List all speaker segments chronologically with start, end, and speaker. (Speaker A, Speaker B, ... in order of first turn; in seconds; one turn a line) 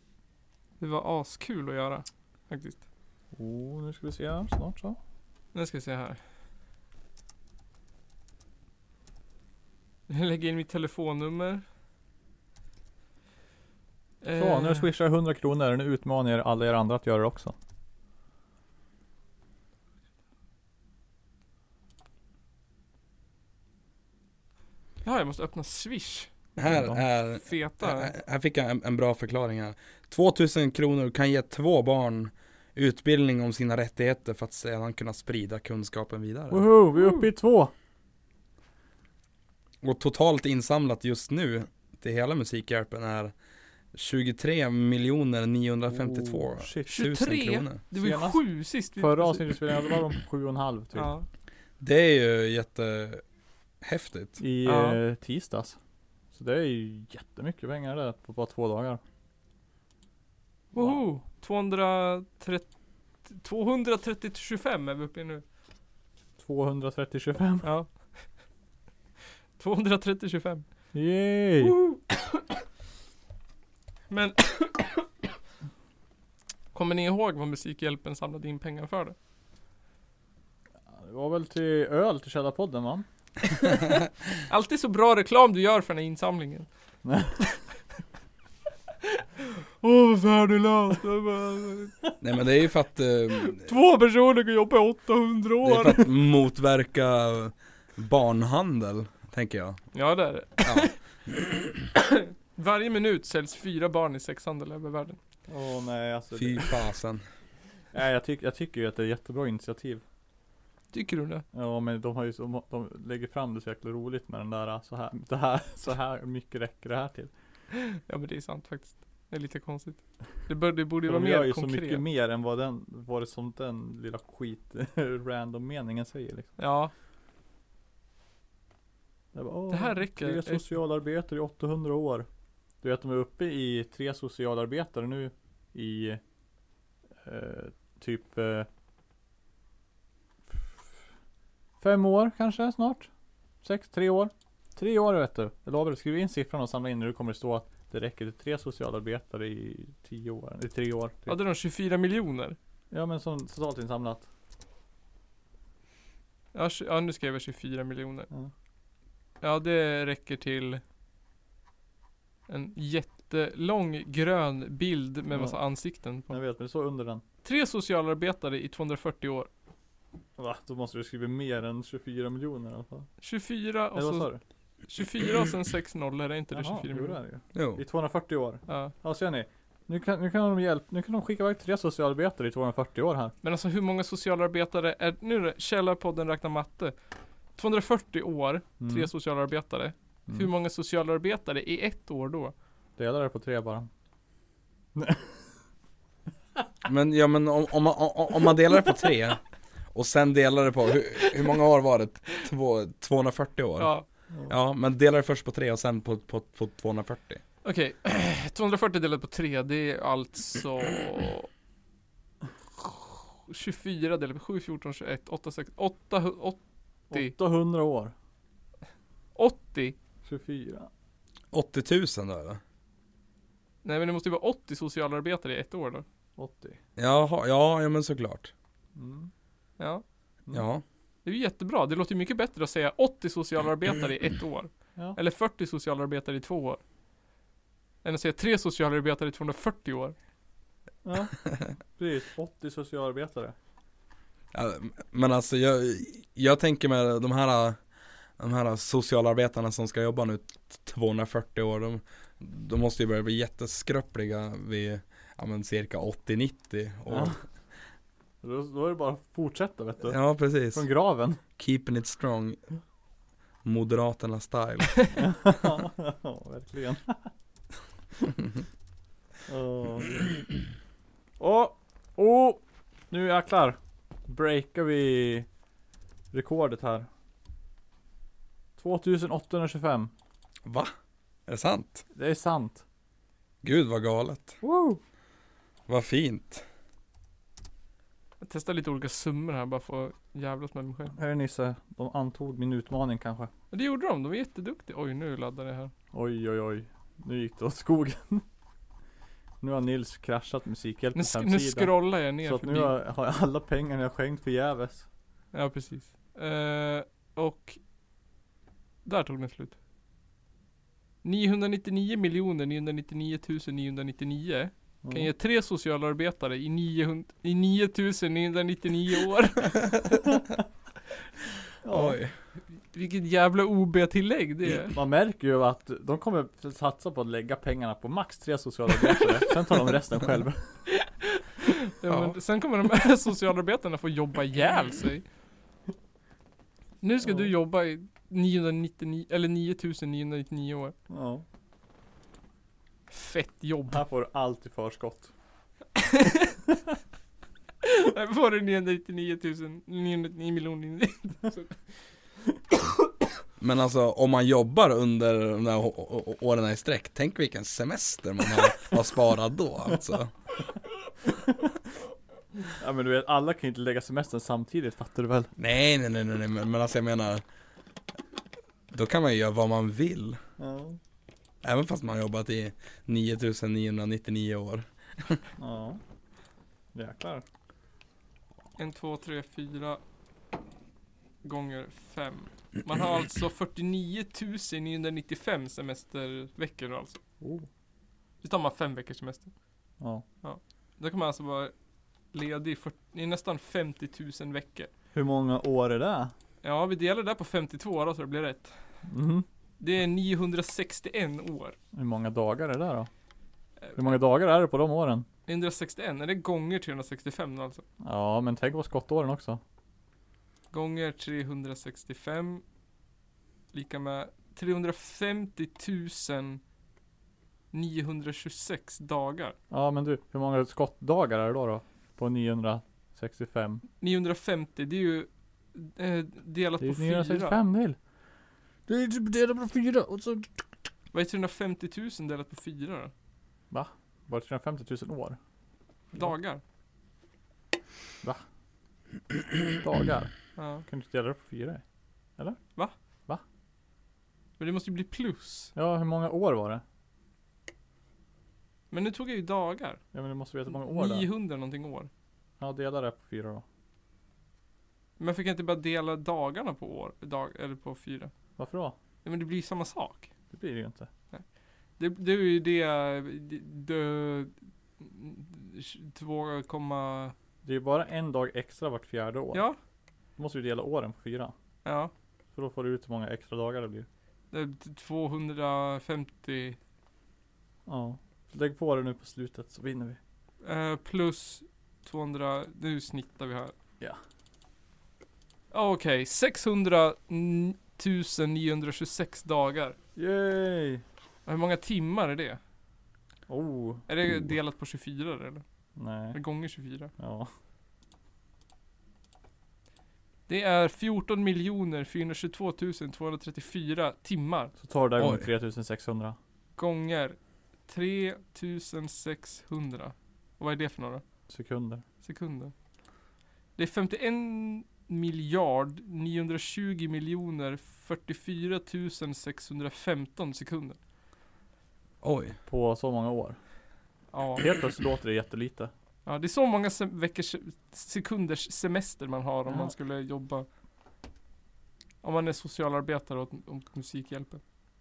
Speaker A: 0.8-2.8
Speaker B: 3.3-5.0
Speaker A: 5.5-6.2
Speaker A: 10.1-11.6
Speaker A: 14.2-14.9
Speaker B: 14.3-17.5
Speaker A: 25.0-26.5
Speaker C: 26.6-36.6
Speaker B: 26.6-27.0
Speaker A: 27.3-28.1
Speaker B: 36.5-37.7
Speaker A: 37.0-37.2
Speaker C: 39.8-43.3
Speaker C: 43.9-47.8
Speaker B: 45.9-46.9
Speaker A: 46.9-49.5
Speaker B: 47.9-48.4
Speaker B: 48.9-51.1
Speaker A: 50.9-51.2
Speaker C: 51.8-53.2
Speaker C: 53.8-54.4
Speaker B: 54.4-55.8
Speaker A: 54.6-55.0
Speaker B: 56.3-59.0
Speaker A: 60.7-62.7
Speaker B: 60.7-61.0
Speaker A: 63.2-65.4
Speaker B: 66.4-67.7
Speaker A: 67.6-68.1
Speaker A: 69.6-70.6
Speaker B: 70.9-71.8
Speaker A: 71.6-72.4
Speaker A: 74.1-75.1
Speaker A: 76.7-79.1
Speaker B: 80.9-83.0
Speaker A: 84.5-86.7
Speaker B: 87.0-87.5
Speaker A: 89.1-92.0
Speaker C: 92.2-93.7
Speaker A: 93.3-96.0
Speaker C: 95.6-99.8
Speaker A: 99.9-101.0
Speaker C: 100.6-100.9
Speaker A: 102.0-105.2
Speaker B: 105.5-106.8
Speaker C: 106.3-107.2
Speaker B: 107.9-110.0
Speaker A: 110.9-111.4
Speaker B: 111.5-117.3
Speaker A: 117.7-122.0
Speaker B: 121.0-126.5
Speaker A: 126.6-126.9
Speaker B: 129.3-132.3
Speaker A: 129.7-130.7
Speaker B: 132.8-136.2
Speaker B: 137.2-138.7
Speaker B: 141.8-143.1
Speaker B: 143.6-151.3
Speaker A: 151.3-152.6
Speaker B: 152.9-154.3
Speaker A: 156.5-158.3
Speaker A: 159.4-160.8
Speaker A: 162.5-166.3
Speaker B: 165.3-165.6
Speaker B: 166.3-167.2
Speaker A: 167.4-169.5
Speaker B: 170.4-173.1
Speaker A: 173.2-174.3
Speaker B: 173.9-174.4
Speaker A: 174.9-177.2
Speaker B: 176.5-183.3
Speaker C: 177.5-177.8
Speaker A: 178.7-178.9
Speaker A: 183.4-186.9
Speaker A: 187.6-192.5
Speaker B: 188.8-189.1
Speaker B: 193.0-193.9
Speaker B: 194.9-195.3
Speaker C: 196.8-199.4
Speaker C: 199.9-203.9
Speaker A: 203.8-204.1
Speaker C: 204.5-207.4
Speaker A: 207.6-211.5
Speaker A: 213.5-216.6
Speaker B: 217.1-218.1
Speaker A: 219.3-219.9
Speaker B: 220.2-220.9
Speaker C: 221.5-222.6
Speaker A: 223.8-226.0
Speaker B: 226.4-226.8
Speaker C: 227.0-228.5
Speaker B: 228.9-229.3
Speaker A: 229.8-230.0
Speaker C: 230.5-230.8
Speaker A: 231.2-236.8
Speaker A: 238.0-240.1
Speaker B: 241.0-243.5
Speaker C: 244.5-247.8
Speaker C: 248.4-257.4
Speaker B: 257.1-257.4
Speaker B: 258.4-261.4
Speaker C: 260.0-260.9
Speaker C: 261.6-262.6
Speaker C: 263.6-265.1
Speaker B: 265.1-267.3
Speaker B: 269.5-270.4
Speaker B: 271.4-275.4
Speaker B: 276.3-277.1
Speaker B: 278.8-280.1
Speaker C: 280.6-280.9
Speaker C: 281.5-282.0
Speaker B: 282.1-282.8
Speaker C: 283.6-284.6
Speaker B: 284.6-285.0
Speaker C: 285.9-286.6
Speaker A: 288.4-291.1
Speaker B: 291.1-293.5
Speaker A: 293.7-295.9
Speaker B: 296.1-298.4
Speaker B: 299.6-305.1
Speaker A: 301.1-302.9
Speaker A: 305.5-307.8
Speaker A: 309.0-309.7
Speaker A: 311.2-320.2
Speaker B: 315.0-315.3
Speaker B: 321.8-322.2
Speaker C: 321.9-322.4
Speaker A: 322.7-324.9
Speaker B: 324.9-330.8
Speaker A: 330.9-335.2
Speaker C: 332.1-332.3
Speaker A: 337.0-340.9
Speaker B: 337.2-337.5
Speaker B: 341.1-341.4
Speaker A: 343.1-344.0
Speaker B: 343.9-345.3
Speaker A: 346.0-346.6
Speaker A: 347.8-351.8
Speaker C: 353.6-360.3
Speaker B: 362.7-365.5
Speaker C: 365.6-367.4
Speaker C: 368.9-370.4
Speaker B: 370.6-371.0
Speaker C: 371.6-375.4
Speaker B: 375.6-376.0
Speaker B: 376.9-377.4
Speaker A: 378.8-380.0
Speaker A: 381.4-387.2
Speaker B: 387.4-387.7
Speaker A: 388.4-389.5
Speaker B: 390.0-390.2
Speaker A: 390.4-391.7
Speaker A: 392.3-394.9
Speaker B: 395.1-396.3
Speaker A: 396.6-398.8
Speaker B: 399.1-399.4
Speaker A: 399.8-401.8
Speaker B: 401.9-403.1
Speaker A: 403.8-404.1
Speaker B: 403.9-405.2
Speaker A: 405.5-407.8
Speaker B: 408.0-409.6
Speaker A: 410.7-412.6
Speaker A: 413.7-416.6
Speaker A: 417.7-419.6
Speaker B: 419.7-423.8
Speaker A: 424.0-427.6
Speaker B: 426.8-428.0
Speaker B: 428.9-430.5
Speaker A: 431.1-433.1
Speaker B: 433.7-435.4
Speaker A: 436.1-436.6
Speaker B: 439.7-440.3
Speaker A: 440.6-440.8
Speaker B: 440.9-441.8
Speaker A: 444.6-445.7
Speaker B: 445.7-446.8
Speaker A: 448.9-450.0
Speaker B: 450.1-451.3
Speaker A: 450.7-452.1
Speaker B: 452.6-453.6
Speaker A: 455.2-458.3
Speaker B: 458.6-458.9
Speaker A: 459.2-460.3
Speaker B: 460.5-461.1
Speaker A: 462.0-467.3
Speaker B: 467.6-469.6
Speaker B: 470.4-471.5
Speaker A: 471.8-472.1
Speaker B: 472.5-474.1
Speaker A: 474.5-476.8
Speaker B: 477.9-480.2
Speaker A: 480.6-483.7
Speaker A: 485.7-489.9
Speaker B: 490.1-491.0
Speaker A: 491.4-492.6
Speaker B: 493.5-494.1
Speaker A: 494.1-495.6
Speaker B: 495.9-496.4
Speaker A: 496.3-497.1
Speaker B: 497.2-497.5
Speaker A: 500.5-504.7
Speaker B: 504.8-506.4
Speaker C: 505.2-505.4
Speaker A: 506.8-507.4
Speaker A: 507.9-511.2
Speaker B: 511.5-512.0
Speaker A: 512.2-512.7
Speaker A: 513.8-521.0
Speaker C: 522.2-522.5
Speaker B: 522.7-523.6
Speaker A: 524.3-524.6
Speaker B: 524.6-525.9
Speaker A: 526.2-530.7
Speaker B: 529.7-529.9
Speaker A: 532.2-534.6